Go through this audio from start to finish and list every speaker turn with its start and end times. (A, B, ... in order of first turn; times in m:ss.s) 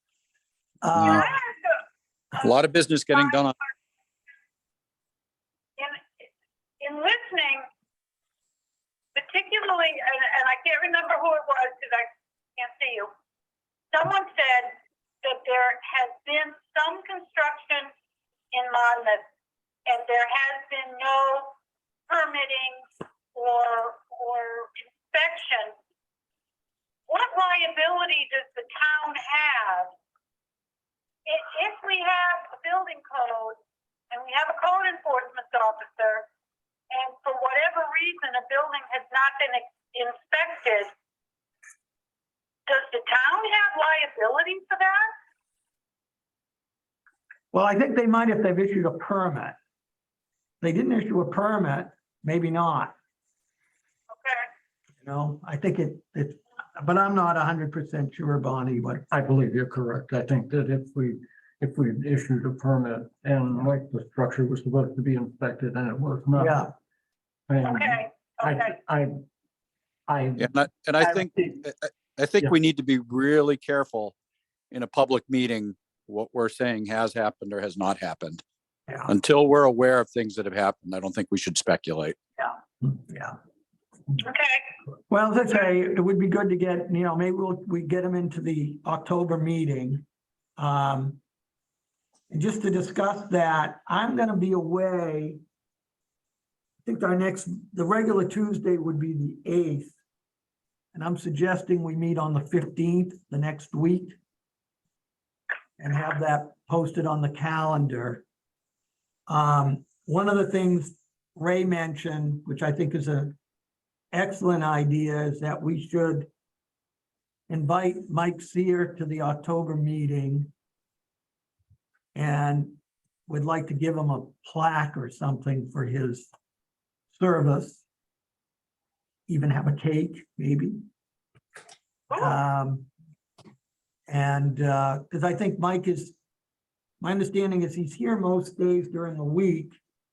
0:00.8-0:01.2 A
0:01.0-0:01.2 B
0:01.0-0:01.8 C
0:02.4-0:03.5 B
0:05.8-0:06.0 C
0:06.8-0:07.7 C
0:09.2-0:13.1 C
0:13.9-0:17.9 C
0:18.5-0:19.2 C
0:19.9-0:21.5 C
0:22.1-0:25.8 C
0:27.1-0:29.9 C
0:31.3-0:33.6 C
0:34.1-0:36.3 C
0:36.9-0:40.9 C
0:42.7-0:45.1 C
0:47.5-0:49.6 A
0:50.6-0:53.0 A
0:54.1-0:54.5 C
0:55.0-0:59.0 A
0:59.1-1:06.6 D
1:06.4-1:06.7 A
1:07.5-1:09.2 D
1:07.6-1:08.8 C
1:10.1-1:10.5 D
1:10.4-1:14.2 B
1:11.2-1:11.6 D
1:14.7-1:18.4 B
1:19.1-1:22.2 B
1:22.4-1:23.4 A
1:24.2-1:24.7 C
1:25.1-1:30.0 A
1:30.6-1:31.2 A
1:32.3-1:35.4 A
1:36.8-1:39.9 A
1:40.9-1:44.2 A
1:45.8-1:48.2 A
1:49.3-1:53.4 A
1:54.1-1:56.3 A
1:57.5-2:00.5 A
2:02.2-2:06.3 A
2:07.1-2:07.8 A
2:09.3-2:10.8 A
2:12.1-2:12.4 C
2:12.1-2:12.9 A
2:14.1-2:16.2 A
2:17.0-2:19.8 A